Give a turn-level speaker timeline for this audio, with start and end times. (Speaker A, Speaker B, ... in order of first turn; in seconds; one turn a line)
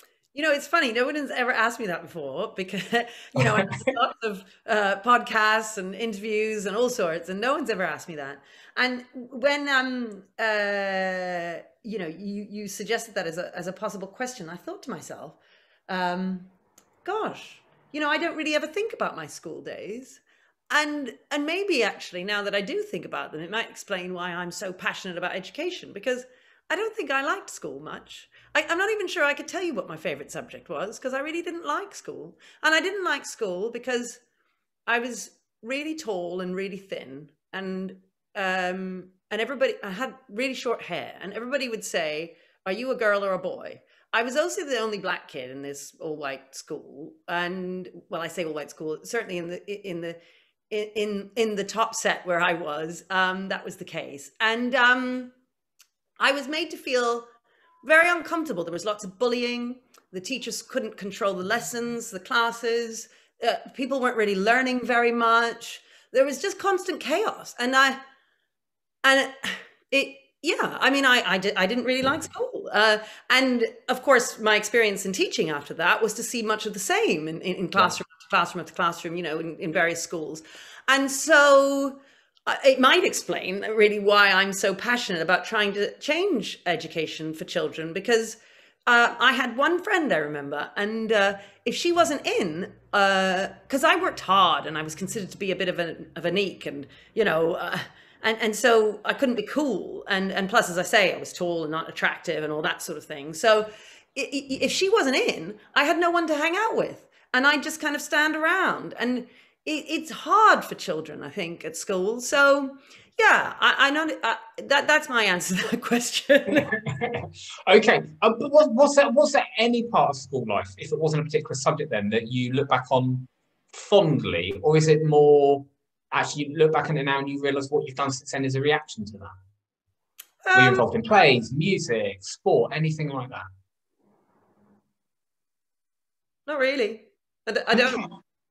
Speaker A: 0.3-16.5
Speaker B: 3.4-3.9
Speaker A: 17.1-34.2
Speaker A: 34.9-50.2
Speaker A: 50.7-55.3
Speaker A: 56.2-57.3
Speaker A: 57.8-68.0
Speaker A: 69.0-116.8
Speaker B: 116.8-129.3
Speaker A: 130.4-130.9
Speaker B: 130.5-133.5
Speaker A: 136.5-138.1